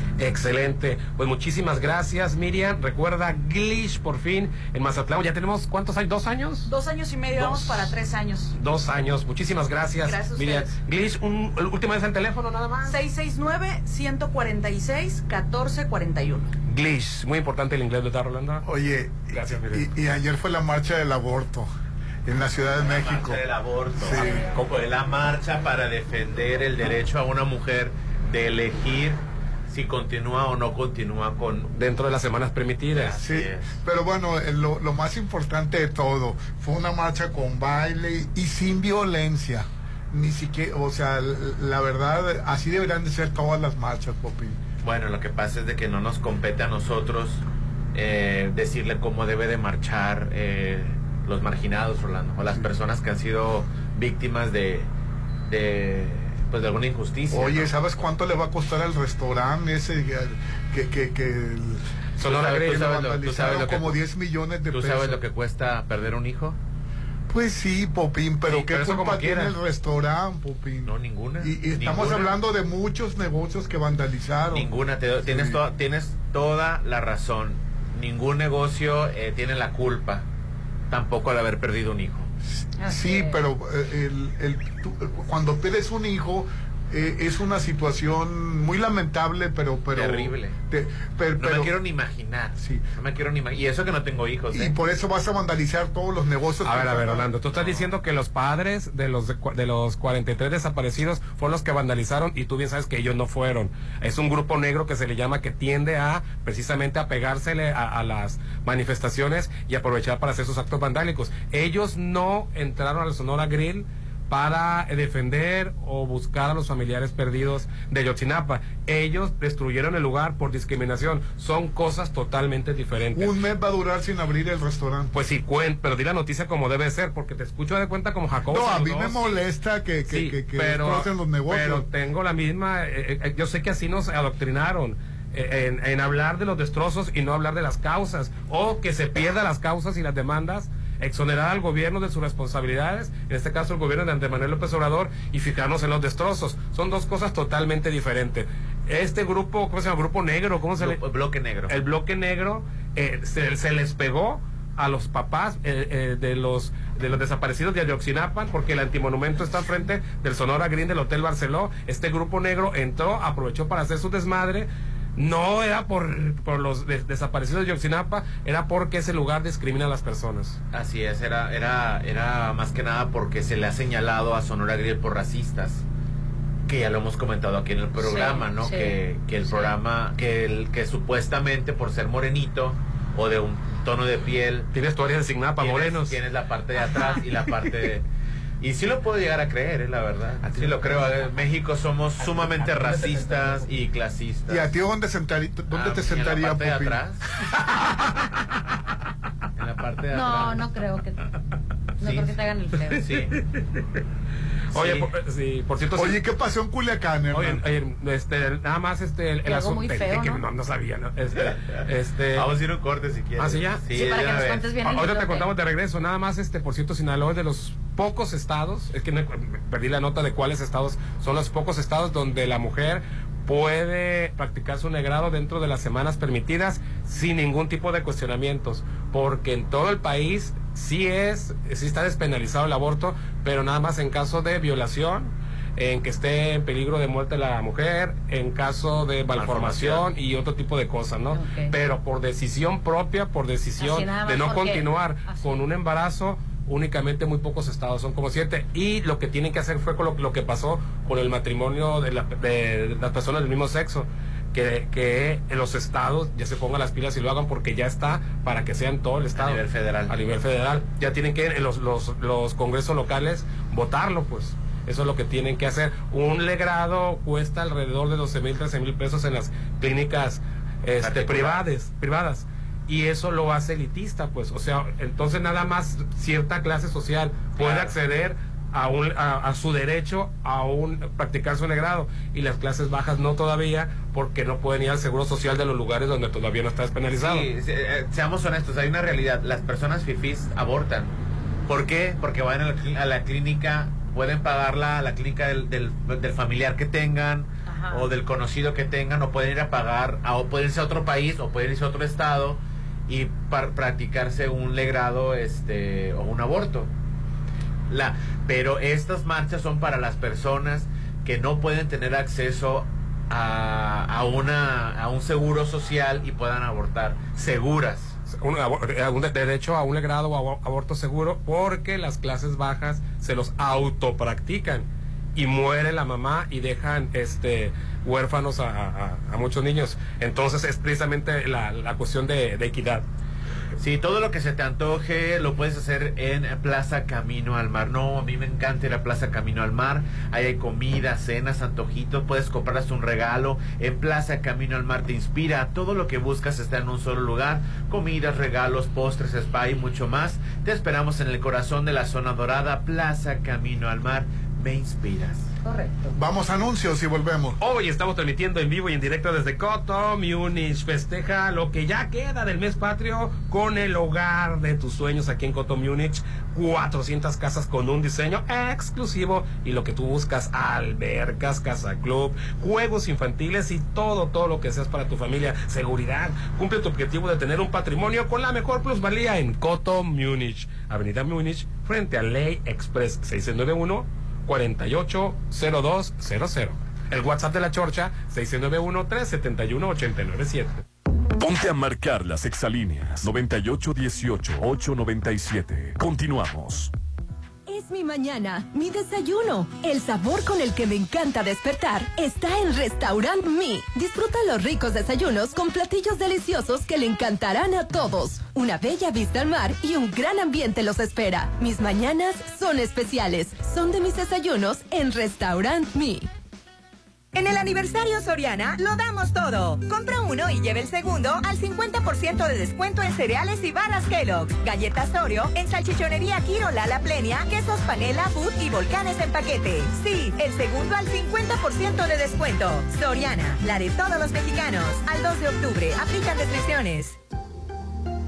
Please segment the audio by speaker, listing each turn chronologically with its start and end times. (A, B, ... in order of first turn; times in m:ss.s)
0:00.2-0:06.7 A
0:06.7-0:08.6 B
0:07.4-0:07.9 A
0:08.6-0:13.0 A
0:10.0-0:10.8 B
0:12.9-0:16.5 B
0:16.7-0:18.6 A
0:18.6-0:21.7 C
0:19.3-0:19.8 A
0:22.3-0:23.4 C
0:22.8-0:31.7 D
0:24.0-0:24.4 C
0:31.7-0:33.2 A
0:32.9-0:33.7 D
0:33.2-0:44.6 C
0:44.8-0:47.4 D
0:47.9-0:54.9 D
0:52.4-0:52.7 C
0:55.5-0:57.7 D
0:57.3-1:01.8 C
1:02.2-1:02.8 A
1:02.2-1:04.0 D
1:02.4-1:05.2 C
1:04.7-1:06.6 D
1:07.3-1:14.7 C
1:08.5-1:09.6 A
1:10.9-1:12.3 D
1:14.5-1:20.2 D
1:15.2-1:15.6 C
1:20.9-1:22.3 D
1:22.8-1:23.4 E
1:22.8-1:31.7 C
1:29.9-1:30.5 D
1:31.4-1:34.7 D
1:32.6-1:32.8 C
1:34.5-1:37.3 C
1:36.6-2:03.3 A
2:03.1-2:05.1 C
2:05.1-2:09.4 A
2:08.5-2:11.9 C
2:10.1-2:31.0 A
2:30.8-2:31.7 D
2:31.7-2:50.6 A
2:50.7-2:55.8 D
2:56.7-3:04.7 D
2:58.0-2:59.0 E
2:59.5-2:59.7 E
3:04.7-3:06.2 A
3:05.6-3:08.0 D
3:06.8-3:07.2 E
3:08.6-3:14.7 D
3:14.5-3:17.0 C
3:15.7-3:17.2 D
3:19.6-3:20.7 D
3:20.1-3:21.2 E
3:22.0-3:23.0 E
3:22.0-3:22.3 D
3:22.9-3:23.3 D
3:24.7-3:25.1 D
3:24.7-3:26.2 A
3:25.9-3:27.6 C
3:27.3-3:32.4 A
3:29.4-3:30.4 E
3:32.1-3:34.7 D
3:33.4-3:33.8 A
3:33.9-3:35.4 E
3:34.8-4:47.5 A
3:59.4-4:00.1 D
4:01.3-4:01.7 E
4:03.8-4:05.7 E
4:19.3-4:20.1 D
4:31.0-4:31.6 D
4:37.6-4:37.9 D
4:47.1-4:51.1 D
4:51.7-5:06.9 D
4:57.7-4:58.1 E
5:07.9-5:18.1 D
5:18.3-5:33.0 A
5:33.8-5:55.5 D
5:55.6-5:56.1 E
5:56.1-5:57.6 C
5:57.6-6:30.8 A
6:31.4-6:36.9 F
6:37.7-6:56.3 G
6:57.3-7:17.2 H